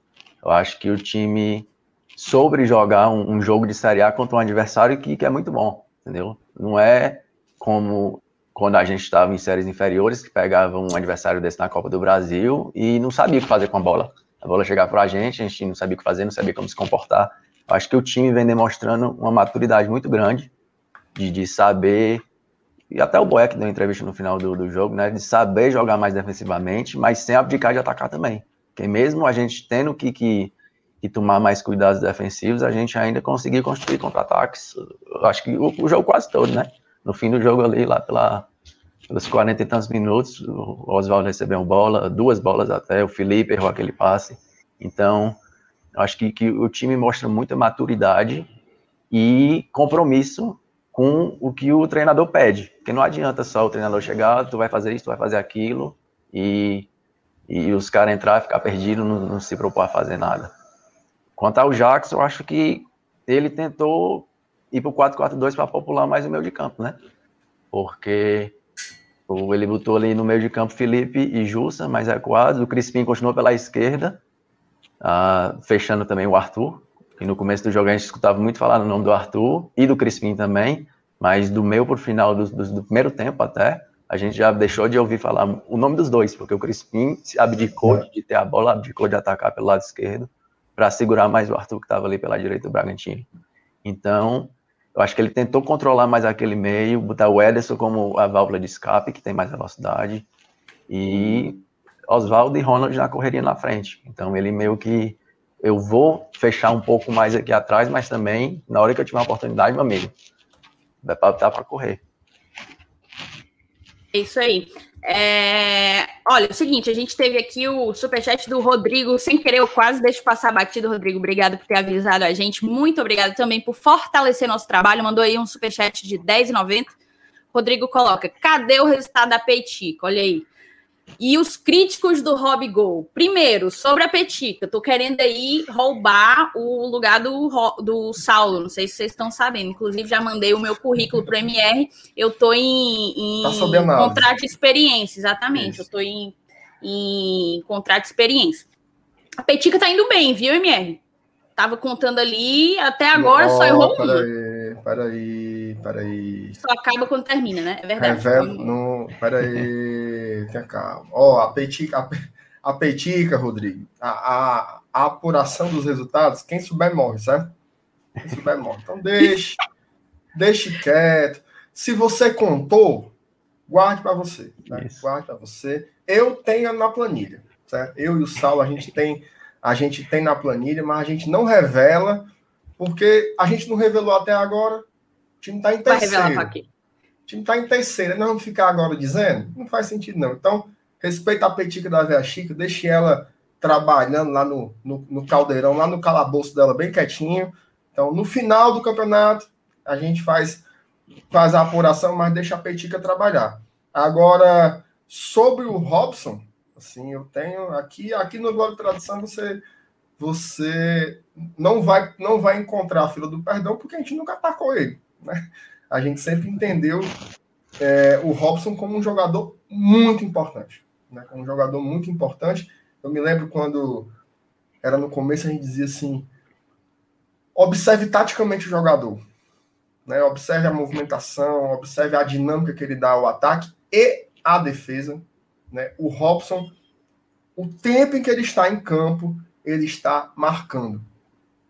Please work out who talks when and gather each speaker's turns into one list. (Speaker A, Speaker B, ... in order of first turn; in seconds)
Speaker A: 0.4-20.5, 21.1-22.2, 22.9-38.5, 39.1-45.4, 45.9-48.5, 49.1-56.9, 57.5-60.5, 61.4-67.0, 67.7-68.5, 69.3-74.2, 75.0-93.3, 93.8-100.2, 100.9-110.1, 111.0-112.0, 174.7-175.0
Speaker B: 114.1-126.9, 127.5-130.5, 131.2-148.7, 149.4-151.0, 151.6-154.3, 156.6-158.7, 185.8-186.7
Speaker C: 143.4-144.3, 145.5-145.8, 153.1-156.6, 158.0-167.5, 168.2-169.6, 170.3-173.1, 173.7-184.8, 185.4-186.5, 187.3-200.6, 201.3-209.6, 210.2-217.1, 217.8-224.1, 224.8-226.3, 227.5-229.2, 230.1-236.7, 237.6-241.1